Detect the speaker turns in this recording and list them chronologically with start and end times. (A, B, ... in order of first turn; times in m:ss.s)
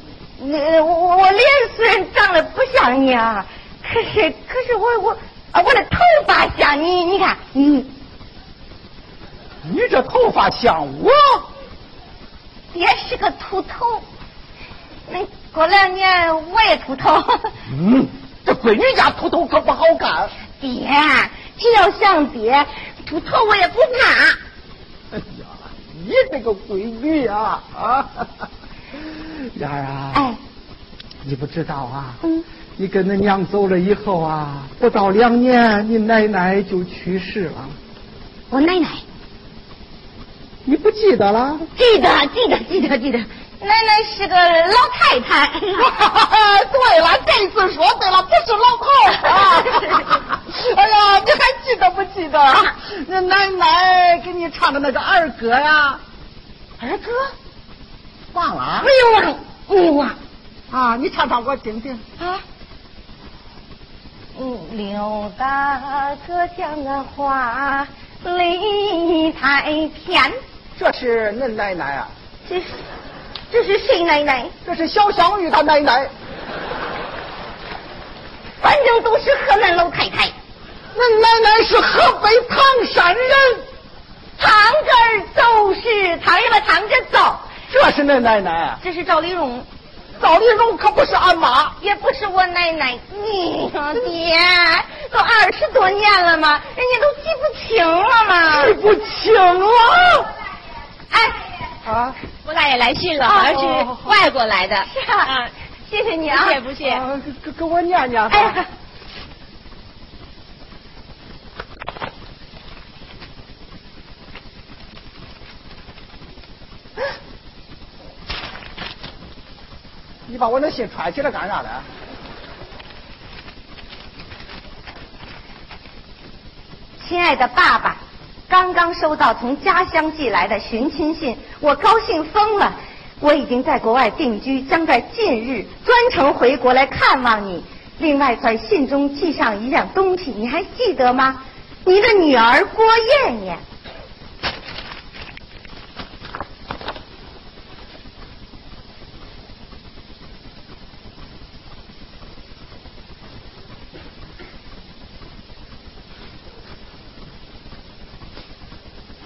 0:00.4-0:07.9 A
0:09.6-0:11.4 B
0:12.7-0:14.0 A
0:15.1-0:17.6 A
0:17.7-0:20.3 B
0:20.6-0:24.4 A
0:25.1-0:28.3 B
0:29.3-0:30.3 B
0:30.1-0:30.4 A
0:31.2-0:32.2 B
0:32.8-0:37.8 B
0:38.5-0:39.0 A
0:40.6-0:41.7 B
0:41.7-0:46.0 A
0:45.8-0:56.0 B
0:49.1-0:50.2 A
0:56.8-0:57.3 A
0:58.3-0:58.9 B
0:58.8-1:00.2 A
1:00.7-1:02.0 B
1:04.3-1:10.4 A
1:10.8-1:12.1 B
1:12.4-1:12.8 A
1:13.5-1:14.5 A
1:14.6-1:16.1 B
1:18.6-1:20.3 A
1:20.9-1:23.6 B
1:24.4-1:27.5 A
1:27.7-1:28.8 B
1:28.8-1:29.7 A
1:30.2-1:31.7 B
1:31.8-1:38.8 A
1:38.5-1:40.3 B
1:41.1-1:41.4 A
1:41.8-1:42.2 B
1:42.4-1:45.5 C
1:43.2-1:43.6 A
1:43.3-1:44.2 B
1:44.8-1:46.6 A
1:46.4-1:47.0 C
1:46.6-1:48.6 B
1:48.3-1:48.7 A
2:00.3-2:01.8 B
2:07.0-2:23.6 A